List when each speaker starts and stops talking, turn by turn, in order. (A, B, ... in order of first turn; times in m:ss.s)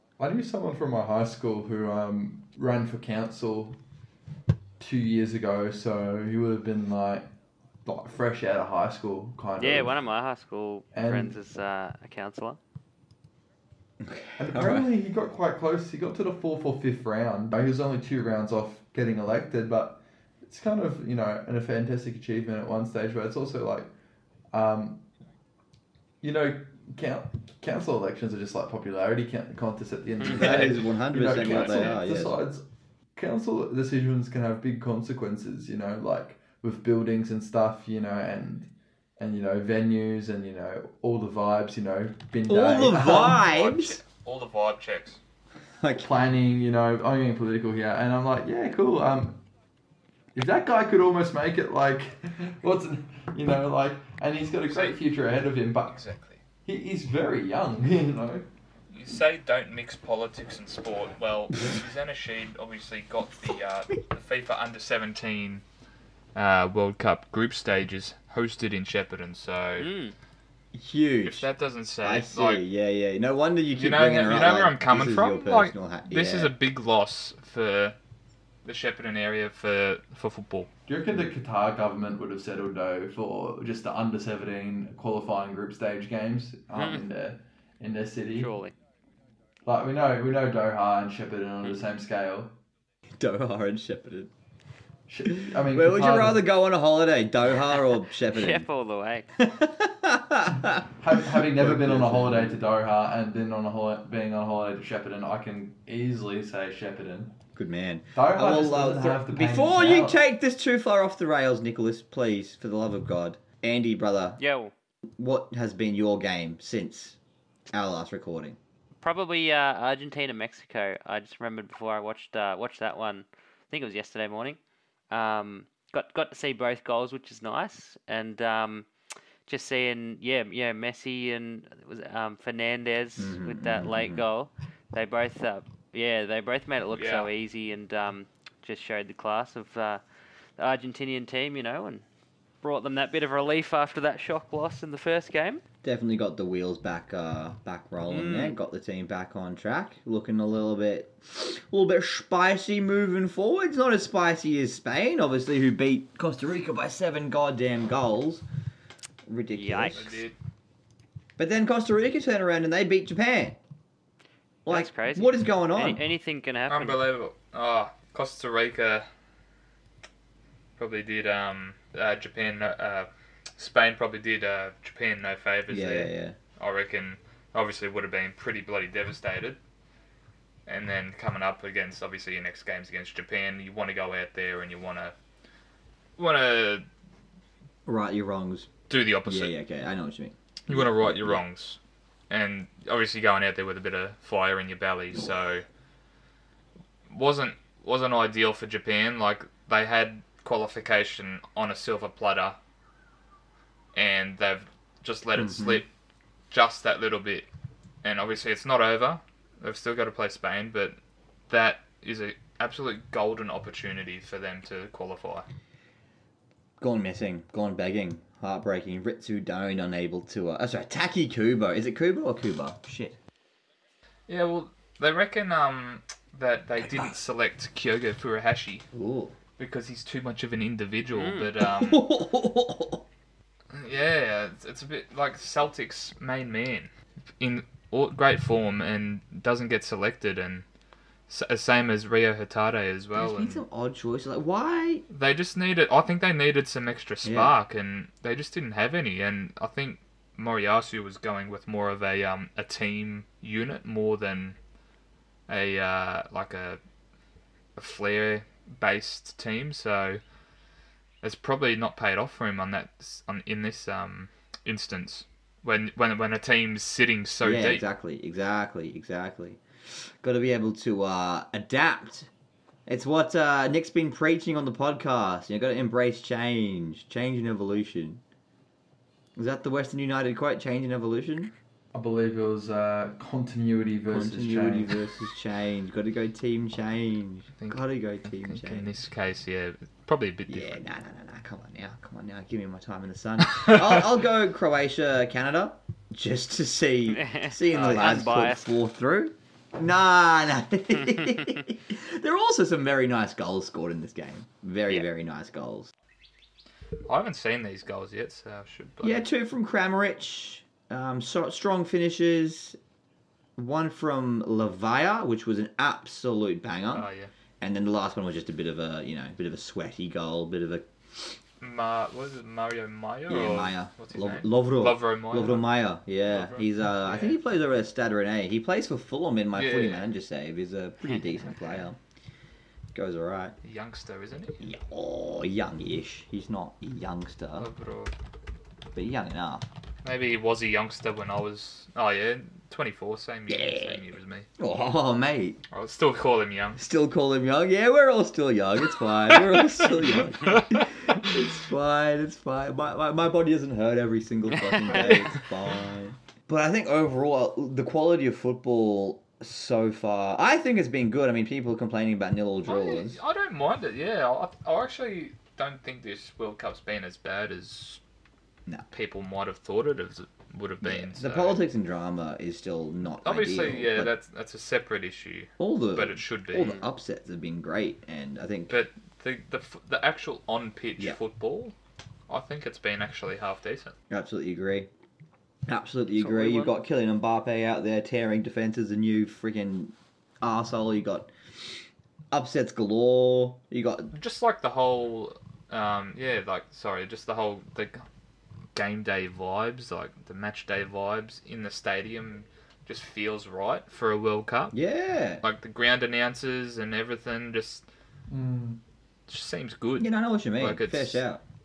0:00.2-0:03.8 A
0:04.8-0:07.3 A
0:07.8-0:10.0 A
0:09.6-0:12.6 B
0:10.9-0:11.3 A
0:14.0-0:14.9 C
0:14.4-0:23.9 A
0:24.5-0:25.0 A
0:26.2-0:32.6 A
0:30.2-0:32.4 C
0:30.3-0:32.0 D
0:33.2-0:43.4 A
0:42.5-0:44.0 C
0:43.0-0:45.2 D
0:45.8-0:46.2 C
0:46.0-0:49.4 A
0:50.3-0:56.0 A
0:54.7-0:55.0 D
0:55.9-0:56.4 D
0:56.6-0:58.5 A
0:58.9-1:05.6 D
1:06.3-1:09.9 D
1:09.8-1:10.1 B
1:10.7-1:11.5 C
1:11.2-1:12.6 D
1:12.0-1:16.5 C
1:13.7-1:18.0 D
1:18.6-1:20.7 D
1:20.9-1:28.5 A
1:26.7-1:27.0 B
1:28.4-1:28.7 B
1:29.6-1:32.6 A
1:33.2-1:34.3 C
1:35.1-1:36.4 A
1:35.3-1:38.6 C
1:38.3-1:39.3 B
1:39.3-1:42.6 C
1:41.0-1:47.4 A
1:47.6-1:54.4 C
1:48.1-1:50.2 A
1:54.4-1:54.7 B
1:55.2-1:57.2 C
1:57.7-1:58.6 C
1:59.0-2:04.6 B
2:05.1-2:08.9 B
2:09.5-2:20.0 B
2:13.2-2:14.2 C
2:16.9-2:17.3 D
2:20.6-2:22.0 B
2:22.6-2:25.6 B
2:25.8-2:38.4 C
2:28.0-2:28.6 B
2:39.2-2:40.2 C
2:39.5-2:40.0 B
2:39.9-2:40.3 D
2:41.4-2:43.6 C
2:44.6-2:46.0 C
2:44.7-2:47.0 B
2:46.7-2:49.1 D
2:50.8-2:59.6 D
2:55.7-2:56.4 C
3:00.7-3:05.1 D
3:06.2-3:06.8 D
3:07.8-3:08.7 C
3:08.9-3:09.5 D
3:09.2-3:11.4 C
3:10.7-3:11.8 D
3:12.3-3:15.6 D
3:17.1-3:22.6 D
3:23.9-3:25.9 D
3:25.4-3:25.8 C
3:26.5-3:27.5 D
3:28.0-3:31.0 D
3:31.5-3:35.4 D
3:36.8-3:43.2 C
3:44.3-3:48.8 D
3:48.9-3:49.4 C
3:49.6-3:52.1 D
3:51.1-3:51.5 B
3:51.6-3:53.0 C
3:53.7-4:00.6 D
4:01.3-4:03.6 D
4:03.1-4:05.0 C
4:05.1-4:14.6 D
4:07.2-4:07.5 C
4:15.5-4:16.8 D
4:17.8-4:20.2 D
4:21.2-4:27.8 D
4:27.4-4:29.6 C
4:30.2-4:32.3 C
4:32.9-4:38.2 C
4:39.4-4:41.5 C
4:41.9-4:44.9 A
4:44.1-4:48.8 C
4:48.4-4:50.8 D
4:50.5-5:05.9 C
4:57.1-4:58.7 B
5:07.1-5:09.2 D
5:09.0-5:12.8 C
5:13.6-5:17.1 C
5:16.9-5:17.3 D
5:17.6-5:20.9 C
5:21.6-5:25.7 D
5:23.3-5:32.0 C
5:26.2-5:27.4 D
5:29.5-5:30.0 D
5:32.9-5:33.6 C
5:33.6-5:34.6 D
5:34.6-5:37.7 C
5:37.6-5:38.1 D
5:38.9-5:39.6 C
5:40.0-5:44.5 D
5:43.5-5:44.0 C
5:44.6-5:45.6 C
5:45.7-5:46.8 D
5:46.8-6:03.2 C
5:49.5-5:50.9 D
5:54.6-5:55.1 B
6:02.6-6:08.0 D
6:08.9-6:11.6 D
6:10.8-6:14.1 C
6:13.2-6:16.8 D
6:15.6-6:18.8 C
6:18.7-6:21.7 D
6:22.3-6:23.9 D
6:24.1-6:24.9 C
6:25.7-6:31.3 C
6:26.2-6:26.8 B
6:32.3-6:34.1 C
6:34.1-6:38.0 D
6:38.7-6:44.8 D
6:44.7-6:45.4 C
6:45.4-6:47.8 D
6:48.3-6:48.8 A
6:49.3-6:51.2 D
6:50.0-6:51.4 C